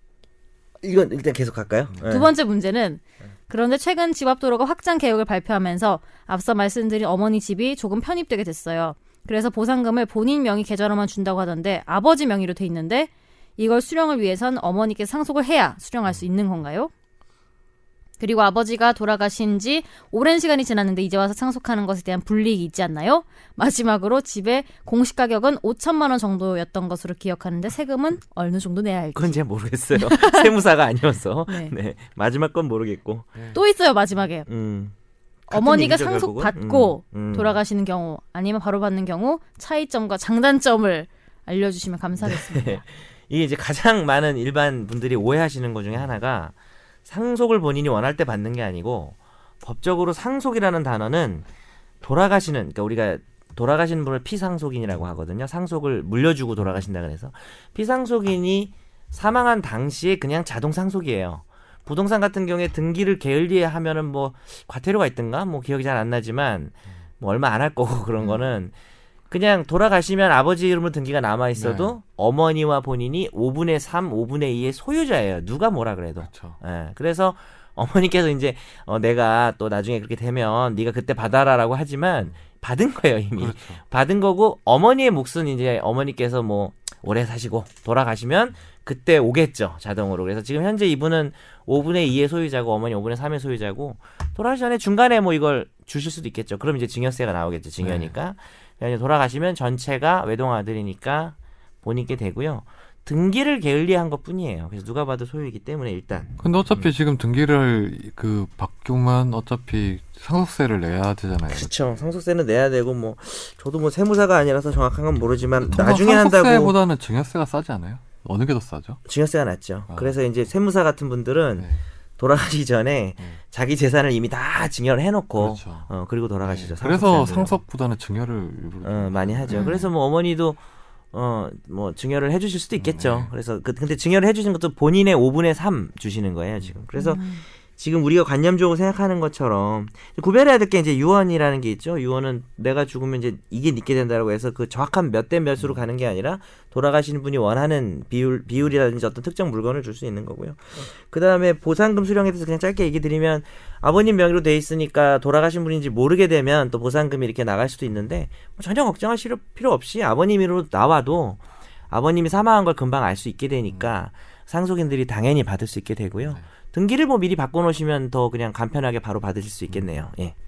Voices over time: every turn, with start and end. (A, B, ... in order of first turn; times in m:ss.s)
0:00.8-0:02.3 A
0:02.0-0:16.9 B
0:18.2-0:29.4 B
0:29.1-0:33.3 A
0:29.9-0:30.5 B
0:31.5-0:31.7 B
0:33.5-0:34.5 B
0:34.5-0:34.9 A
0:35.5-0:37.6 A
0:35.5-0:42.8 B
0:42.2-0:46.5 A
0:47.0-0:51.4 A
0:52.0-1:08.7 A
1:09.3-1:46.4 A
1:11.6-1:11.9 C
1:16.2-1:16.6 C
1:23.4-1:23.8 C
1:37.8-1:38.1 C
1:46.4-1:51.7 C
1:51.5-1:56.7 A
1:55.6-1:59.0 C
1:59.0-2:07.6 A
1:59.9-2:00.2 C
2:05.4-2:05.9 C
2:06.4-2:09.8 C
2:08.8-2:10.6 A
2:09.5-2:09.9 B
2:11.1-2:50.3 A
2:12.8-2:13.3 C
2:17.0-2:17.4 B